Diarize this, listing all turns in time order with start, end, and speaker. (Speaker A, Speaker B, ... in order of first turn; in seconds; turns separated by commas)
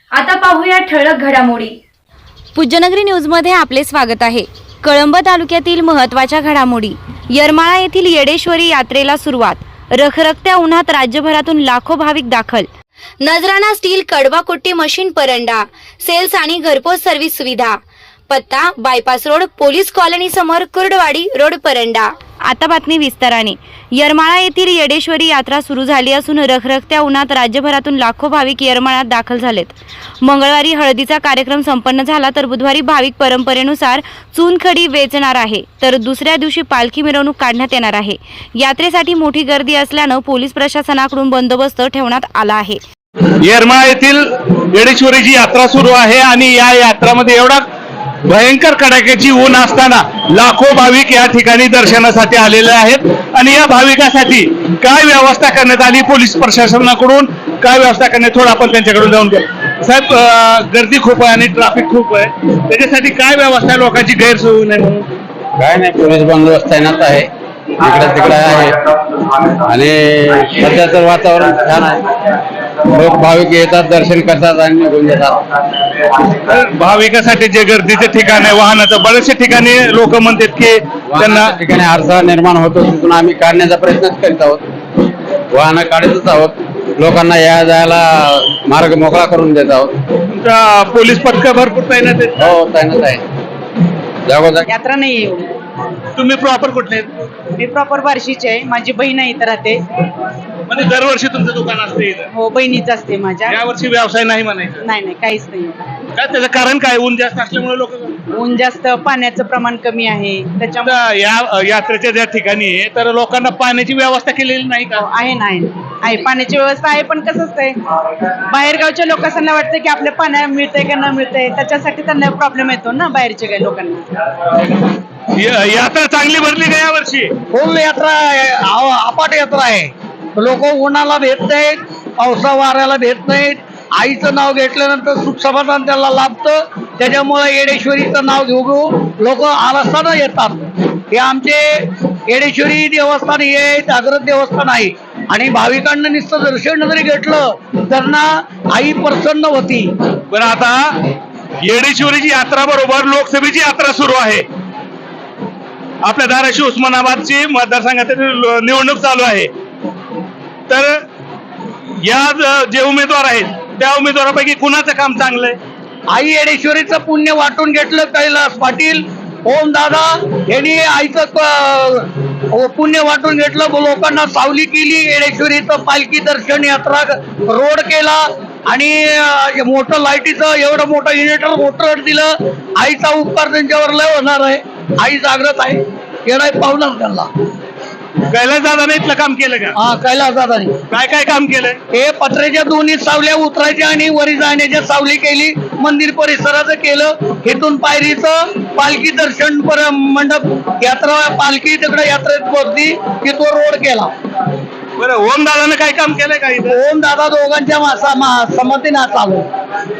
Speaker A: 0.1-1.8, Speaker A: 2.5-12.7, Speaker A: 13.2-17.8, Speaker A: 18.3-42.8, Speaker B: 43.4-47.6, Speaker B: 48.2-65.0, Speaker C: 65.6-72.3, Speaker C: 72.8-76.0, Speaker B: 76.5-81.5, Speaker C: 81.1-84.6, Speaker C: 85.5-89.9, Speaker B: 90.3-92.5, Speaker C: 92.4-93.2, Speaker C: 94.2-94.7, Speaker D: 94.7-95.5, Speaker B: 96.1-97.2, Speaker D: 97.6-99.8, Speaker B: 100.7-102.3, Speaker D: 102.3-103.6, Speaker B: 103.5-104.9, Speaker D: 104.8-105.8, Speaker B: 106.2-108.2, Speaker D: 108.3-111.0, Speaker B: 110.8-115.0, Speaker D: 115.0-117.8, Speaker D: 118.5-124.1, Speaker B: 125.4-127.3, Speaker E: 127.5-141.7, Speaker E: 142.3-149.9, Speaker B: 150.3-150.8, Speaker B: 151.6-154.4, Speaker B: 156.0-159.5, Speaker B: 160.7-160.9, Speaker B: 162.0-165.6, Speaker E: 166.1-187.3, Speaker B: 188.3-189.8, Speaker E: 189.8-190.8, Speaker B: 190.9-191.8, Speaker E: 191.9-204.1, Speaker B: 205.0-206.8, Speaker E: 206.7-209.5